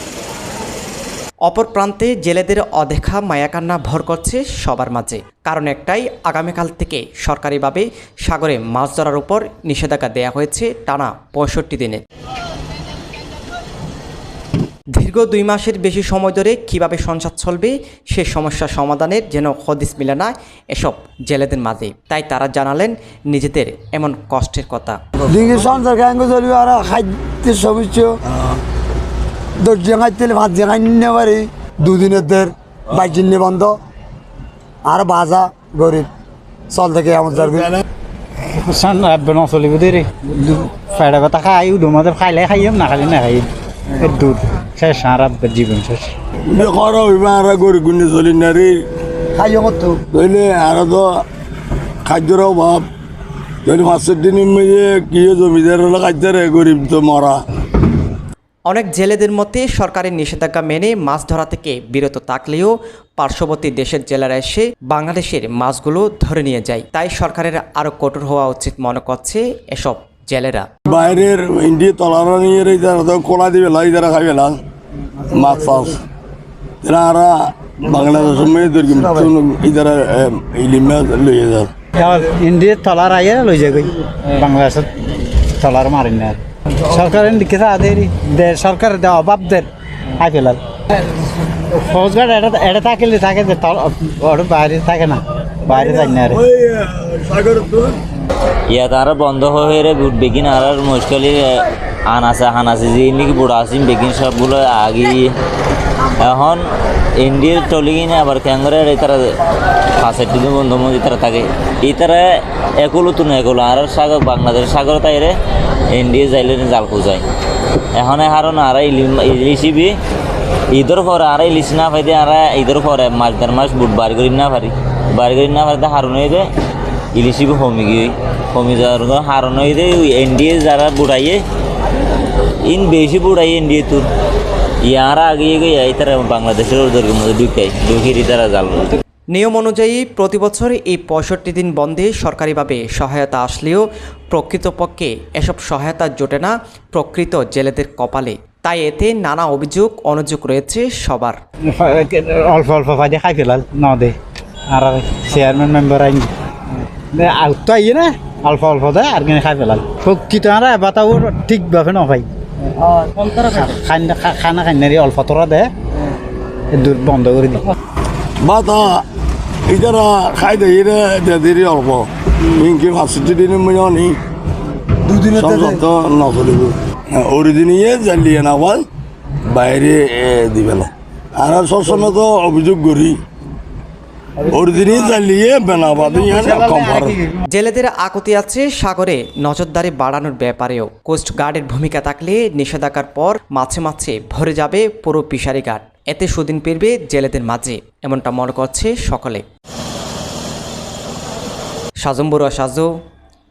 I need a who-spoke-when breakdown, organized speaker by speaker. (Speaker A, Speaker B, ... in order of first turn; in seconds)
Speaker A: 1.4-12.0, 14.9-25.0, 58.7-70.7, 139.3-151.4, 187.5-199.4, 202.0-202.9
Speaker B: 25.3-28.2, 29.6-33.8, 34.9-36.1, 36.7-37.7, 49.4-50.0, 175.0-175.8
Speaker C: 38.5-46.1, 82.0-90.6, 91.5-96.4, 151.7-154.2, 154.7-156.3, 157.1-162.3, 162.9-165.7, 166.7-167.7
Speaker D: 46.5-48.8, 50.1-51.2, 52.0-52.9, 53.6-57.4, 70.9-74.6, 75.3-76.0, 76.8-81.7, 95.7-98.0, 168.4-169.0, 169.7-174.2, 175.3-178.8, 179.5-183.2, 184.4-187.2
Speaker E: 98.7-105.3, 106.2-109.3, 110.0-115.4, 115.9-117.2, 117.9-120.0, 120.7-126.5, 127.1-131.4, 132.7-134.1, 134.8-138.9